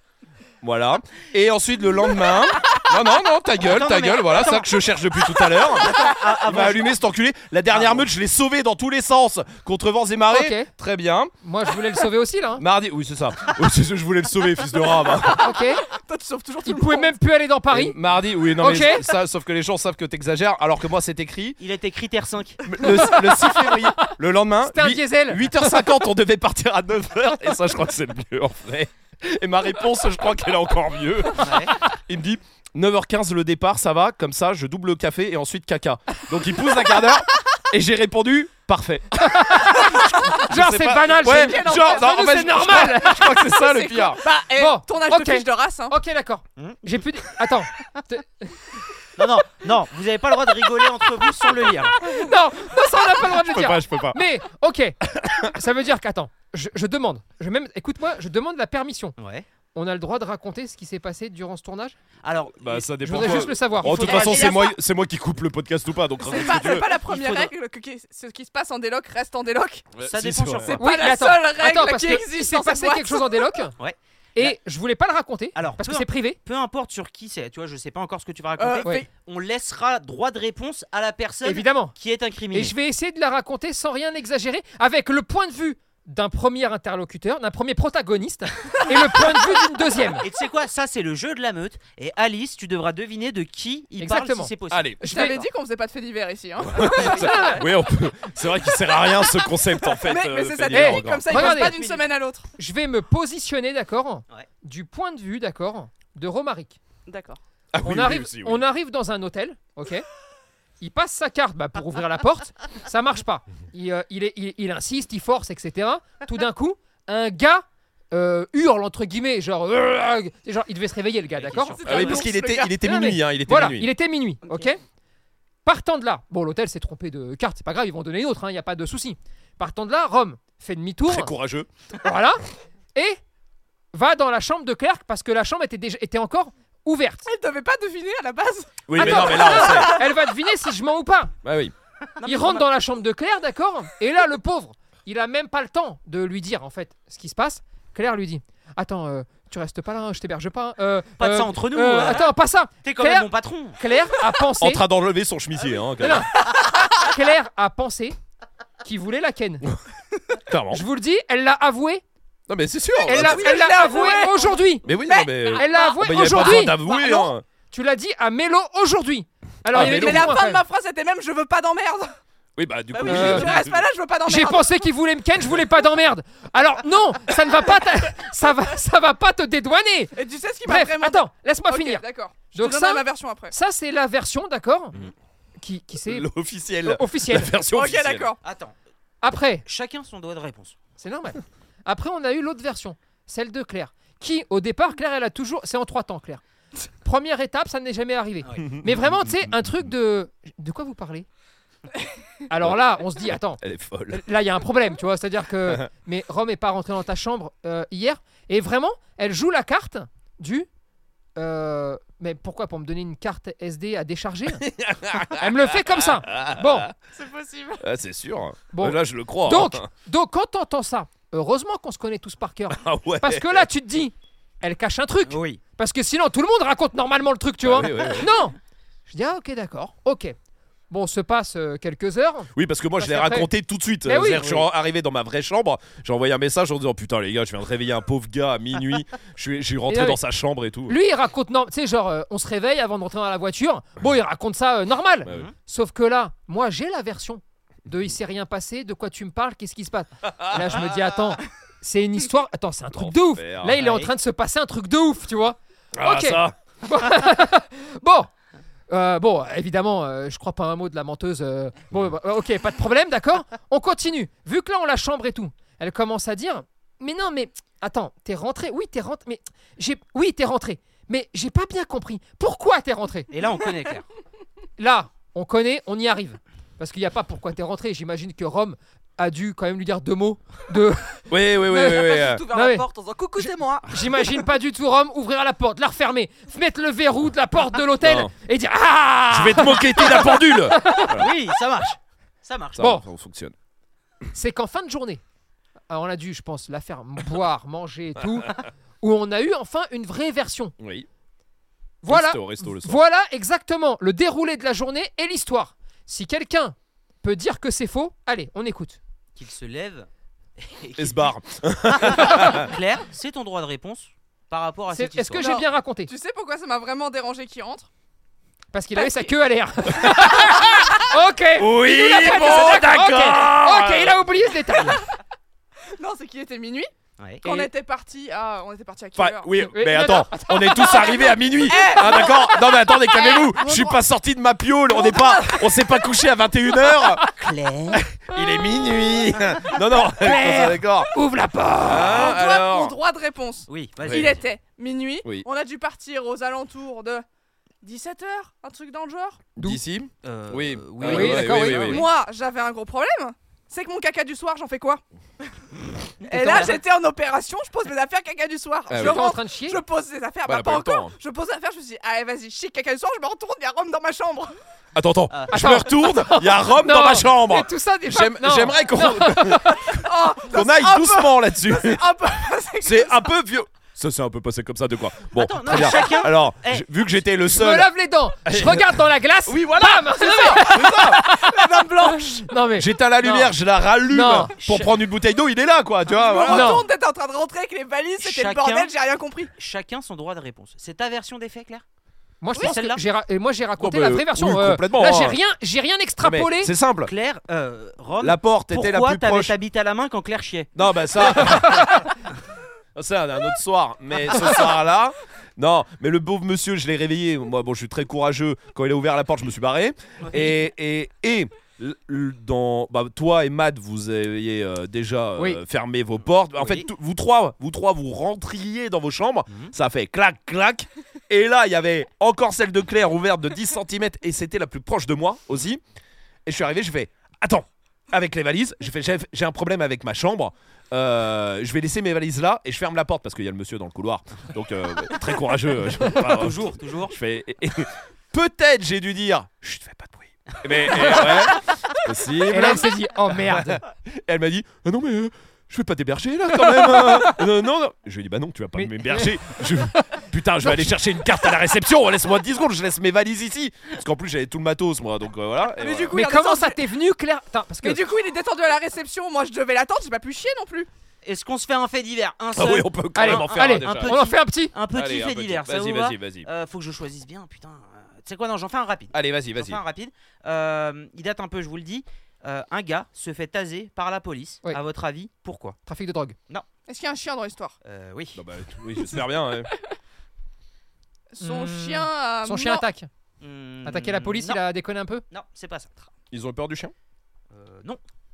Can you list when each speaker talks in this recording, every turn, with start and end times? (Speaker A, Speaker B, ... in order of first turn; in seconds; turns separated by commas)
Speaker A: 0.6-11.3, Speaker B: 3.6-4.7, Speaker B: 5.3-6.9, Speaker B: 7.7-8.1, Speaker C: 10.3-10.7, Speaker C: 11.4-12.6, Speaker A: 12.6-15.5, Speaker C: 15.4-15.8, Speaker D: 15.9-17.1, Speaker C: 16.6-18.0, Speaker A: 17.7-21.6, Speaker C: 18.6-19.1, Speaker B: 21.6-22.7, Speaker A: 22.6-44.2, Speaker C: 22.8-24.1, Speaker C: 24.6-25.9, Speaker B: 31.4-31.7, Speaker C: 39.2-43.4, Speaker D: 41.2-46.0, Speaker C: 44.5-48.8, Speaker B: 46.6-46.8, Speaker B: 49.2-52.0, Speaker C: 52.0-59.1, Speaker A: 53.1-54.2, Speaker A: 55.0-55.5, Speaker B: 59.2-59.5, Speaker C: 59.7-62.0, Speaker B: 62.2-63.4, Speaker A: 62.6-67.2, Speaker C: 63.0-64.6, Speaker D: 63.8-64.8, Speaker D: 66.2-69.9, Speaker A: 70.0-70.8, Speaker B: 70.0-70.9, Speaker D: 70.8-73.5, Speaker C: 70.8-73.7, Speaker B: 73.8-74.5, Speaker C: 74.3-76.4, Speaker B: 75.5-82.7, Speaker D: 78.6-79.1, Speaker C: 81.4-81.9, Speaker C: 82.5-90.2, Speaker B: 90.2-94.9, Speaker C: 94.0-95.4, Speaker A: 94.7-95.0, Speaker D: 95.0-97.4, Speaker A: 96.6-101.5, Speaker C: 97.0-97.6, Speaker D: 99.9-102.5, Speaker C: 100.7-101.8, Speaker B: 101.5-102.0, Speaker C: 102.6-106.8, Speaker E: 107.1-107.4, Speaker A: 107.7-108.6, Speaker C: 107.8-110.0, Speaker C: 110.8-121.8, Speaker B: 121.4-122.2, Speaker D: 121.8-122.7, Speaker A: 121.8-123.9, Speaker C: 122.6-124.8, Speaker E: 124.5-124.7, Speaker C: 125.6-131.3, Speaker A: 131.1-131.7, Speaker C: 132.0-133.2, Speaker C: 133.9-137.2, Speaker D: 137.2-140.0, Speaker A: 138.9-139.9, Speaker C: 138.9-141.3, Speaker A: 141.4-141.7, Speaker B: 142.1-142.6, Speaker C: 142.2-154.8, Speaker B: 151.2-152.3, Speaker B: 152.8-153.8, Speaker A: 154.6-156.3, Speaker C: 156.0-158.2, Speaker C: 158.8-159.7, Speaker A: 160.4-160.8, Speaker C: 160.7-162.0, Speaker A: 162.5-163.4, Speaker C: 163.1-164.9, Speaker D: 163.1-167.3, Speaker A: 164.8-167.4, Speaker C: 165.5-166.9, Speaker C: 167.7-170.6, Speaker A: 169.7-170.3, Speaker D: 169.7-172.2, Speaker A: 172.6-173.8, Speaker D: 172.9-174.7, Speaker E: 173.0-173.3, Speaker C: 173.0-173.5, Speaker C: 174.2-184.9, Speaker D: 180.1-183.5, Speaker C: 185.6-186.3, Speaker A: 186.0-188.3, Speaker C: 186.8-187.5, Speaker D: 187.7-188.4, Speaker B: 188.4-188.7, Speaker C: 189.2-189.6, Speaker B: 189.7-190.8, Speaker C: 191.0-196.4, Speaker C: 197.0-201.3, Speaker A: 198.7-199.2, Speaker C: 202.5-210.7, Speaker A: 203.6-204.3, Speaker C: 211.4-214.7, Speaker A: 214.5-216.9, Speaker C: 215.3-216.9, Speaker E: 217.2-217.8, Speaker A: 217.8-219.9, Speaker C: 218.7-228.6, Speaker A: 222.7-223.7, Speaker B: 225.3-225.6, Speaker A: 227.6-228.3, Speaker C: 229.1-230.3, Speaker C: 230.9-233.5, Speaker A: 232.5-240.9, Speaker C: 234.0-234.5, Speaker B: 234.4-234.7, Speaker C: 239.9-240.2, Speaker C: 240.9-258.3, Speaker A: 245.2-245.5, Speaker A: 250.2-250.9, Speaker A: 252.9-253.8, Speaker B: 253.8-254.1, Speaker A: 255.9-256.6, Speaker C: 258.9-273.3, Speaker B: 273.3-274.1, Speaker C: 274.8-282.9, Speaker A: 281.3-282.4, Speaker E: 281.7-284.4, Speaker C: 283.4-291.1, Speaker A: 288.0-288.3, Speaker A: 289.3-291.3, Speaker B: 291.1-292.8, Speaker A: 292.8-293.5, Speaker C: 292.8-293.0, Speaker C: 294.3-295.2, Speaker C: 295.9-300.7, Speaker A: 300.8-301.1, Speaker C: 302.0-309.0, Speaker A: 302.1-303.0, Speaker B: 309.3-311.3, Speaker A: 311.0-312.7, Speaker B: 311.9-315.5, Speaker C: 314.9-316.1, Speaker D: 315.4-317.9, Speaker C: 318.7-325.0, Speaker D: 318.9-319.3, Speaker A: 320.0-320.7, Speaker A: 321.6-324.5, Speaker D: 325.9-326.9, Speaker B: 327.2-327.6, Speaker D: 327.4-329.7, Speaker A: 329.1-337.2, Speaker C: 329.7-331.2, Speaker D: 330.9-333.9, Speaker D: 334.9-335.6, Speaker C: 337.1-337.5, Speaker B: 337.4-338.0, Speaker A: 338.0-341.1, Speaker C: 340.0-342.3, Speaker A: 341.9-342.9, Speaker D: 342.0-347.2, Speaker B: 343.7-344.4, Speaker A: 344.1-344.4, Speaker D: 347.8-349.4, Speaker A: 349.6-352.1, Speaker B: 350.2-352.0, Speaker C: 351.0-352.0, Speaker D: 351.6-355.0, Speaker B: 356.2-356.8, Speaker D: 356.2-364.5, Speaker A: 358.9-359.2, Speaker C: 358.9-359.8, Speaker A: 360.4-361.1, Speaker A: 364.9-369.9, Speaker C: 365.5-369.9, Speaker D: 369.9-373.1, Speaker A: 370.5-372.1, Speaker A: 372.8-377.9, Speaker B: 375.3-376.9, Speaker C: 377.5-383.5, Speaker A: 378.4-381.3, Speaker D: 380.3-382.4, Speaker A: 382.7-386.8, Speaker C: 384.1-384.5, Speaker B: 384.6-385.0, Speaker D: 386.1-389.5, Speaker C: 386.4-386.9, Speaker B: 388.2-388.9, Speaker B: 389.6-391.8, Speaker C: 392.4-396.7, Speaker B: 392.5-393.0, Speaker A: 393.8-395.4, Speaker A: 396.2-397.1, Speaker B: 397.0-400.7, Speaker A: 398.2-399.5, Speaker A: 400.7-402.0, Speaker A: 402.9-425.8, Speaker B: 410.2-410.6, Speaker B: 416.5-416.9, Speaker B: 419.5-419.7, Speaker A: 426.4-456.2, Speaker B: 436.1-437.2, Speaker B: 440.5-441.4, Speaker C: 442.5-443.8, Speaker C: 446.6-447.3, Speaker C: 448.7-451.0, Speaker D: 455.7-456.8, Speaker C: 456.1-458.0, Speaker D: 457.8-460.9, Speaker B: 461.2-475.8, Speaker A: 462.5-464.2, Speaker C: 463.1-464.7, Speaker A: 464.9-466.5, Speaker A: 469.1-469.8, Speaker C: 475.9-476.4, Speaker D: 476.9-477.8, Speaker B: 477.8-478.4, Speaker A: 478.3-479.7, Speaker D: 481.3-482.8, Speaker C: 481.4-483.1, Speaker B: 483.4-484.6, Speaker C: 483.8-485.2, Speaker B: 485.3-486.1, Speaker A: 486.3-486.9, Speaker B: 487.5-488.0